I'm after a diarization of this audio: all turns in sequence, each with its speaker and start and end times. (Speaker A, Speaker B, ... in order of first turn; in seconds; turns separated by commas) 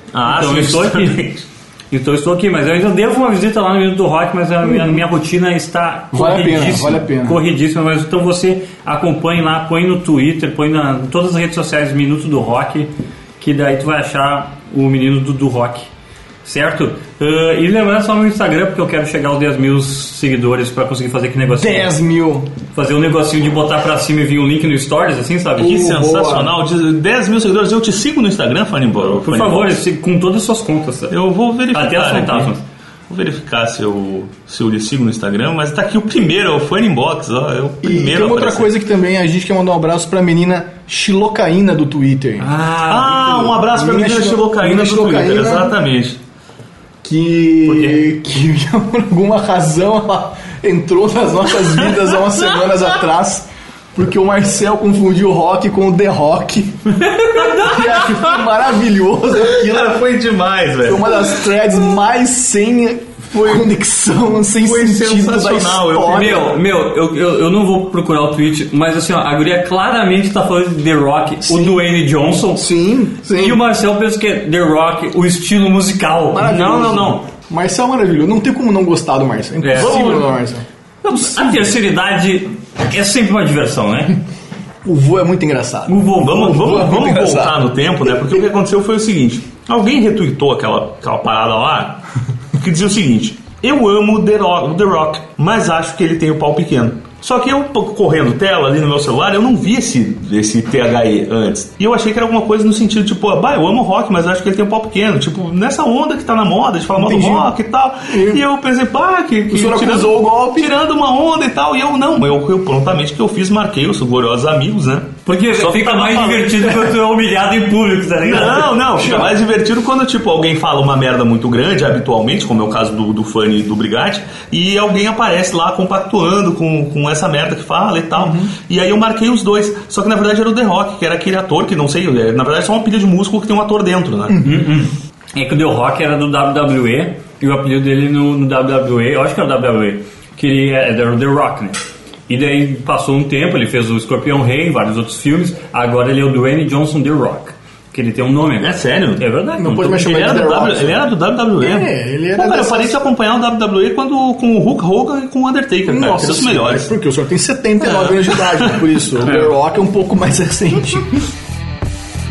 Speaker A: 0.1-1.2, Speaker B: 0.2-15.9, Speaker C: 4.6-5.0, Speaker C: 6.1-7.4, Speaker B: 16.4-21.9, Speaker C: 21.5-22.5, Speaker B: 22.8-25.8, Speaker C: 25.6-26.6, Speaker A: 25.6-29.8, Speaker B: 29.0-31.1, Speaker A: 31.1-32.5, Speaker B: 31.7-32.6, Speaker A: 33.1-38.7, Speaker C: 37.8-42.5, Speaker B: 42.4-43.6, Speaker A: 42.9-46.2, Speaker C: 43.6-45.8, Speaker C: 47.0-60.0, Speaker B: 47.7-48.0, Speaker B: 57.1-57.8, Speaker A: 59.4-61.4, Speaker C: 60.8-66.5, Speaker A: 64.5-66.5, Speaker B: 66.1-72.7, Speaker C: 71.5-71.8, Speaker C: 72.6-73.6, Speaker B: 73.3-76.5, Speaker C: 76.3-80.7, Speaker A: 76.4-77.2, Speaker B: 79.6-80.2, Speaker A: 79.7-80.3, Speaker B: 81.0-84.2, Speaker C: 84.8-87.6, Speaker B: 85.9-86.8, Speaker A: 86.2-92.0, Speaker A: 92.6-116.9, Speaker C: 107.0-107.5, Speaker C: 108.1-108.4, Speaker C: 109.5-110.7, Speaker B: 115.2-119.0, Speaker A: 118.2-134.4, Speaker C: 128.2-128.5, Speaker C: 134.3-134.6, Speaker B: 134.4-150.0, Speaker A: 148.6-156.9, Speaker C: 149.6-153.0, Speaker C: 155.9-161.3, Speaker A: 157.8-158.9